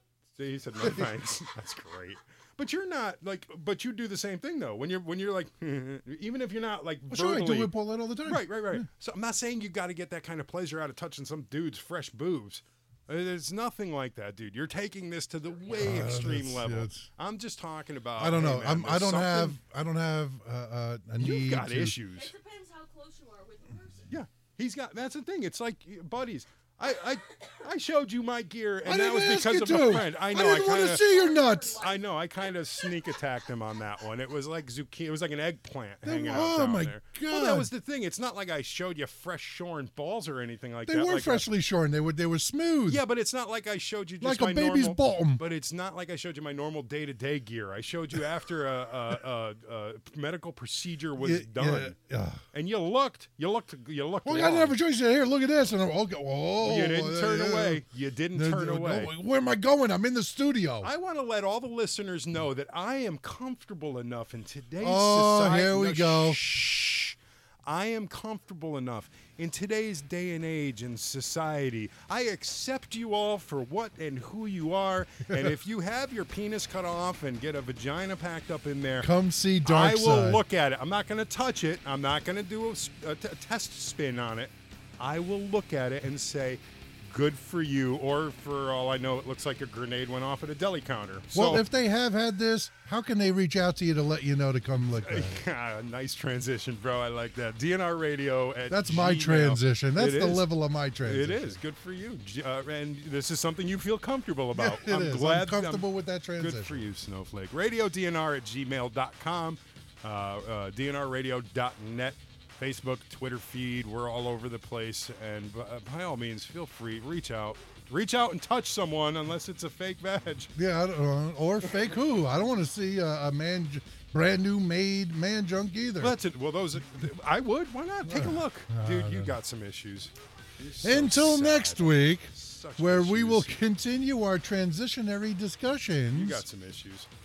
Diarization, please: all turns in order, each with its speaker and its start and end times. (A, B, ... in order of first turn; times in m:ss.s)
0:00.4-0:19.6 A
0:07.1-0:08.9 B
0:15.7-0:17.1 B
0:18.2-0:22.0 B
0:21.2-0:22.3 A
0:22.1-0:24.1 C
0:24.1-0:31.1 A
0:28.8-0:31.9 B
0:30.2-0:33.2 C
0:31.7-0:41.4 A
0:36.0-0:37.7 B
0:40.9-0:43.0 B
0:42.9-0:51.9 A
0:44.2-0:45.4 B
0:51.2-0:52.4 B
0:52.5-0:54.8 A
0:54.2-1:00.9 B
0:56.6-0:59.1 A
1:00.8-1:19.1 A
1:04.8-1:06.4 B
1:19.0-1:20.4 B
1:19.6-1:31.6 A
1:31.3-1:35.4 B
1:35.0-1:40.5 A
1:38.7-1:41.6 B
1:41.0-1:45.9 A
1:44.6-1:46.8 B
1:46.4-2:00.5 A
2:00.6-2:06.2 B
2:06.0-2:13.6 A
2:08.1-2:09.4 B
2:10.8-2:16.4 B
2:16.1-2:17.1 A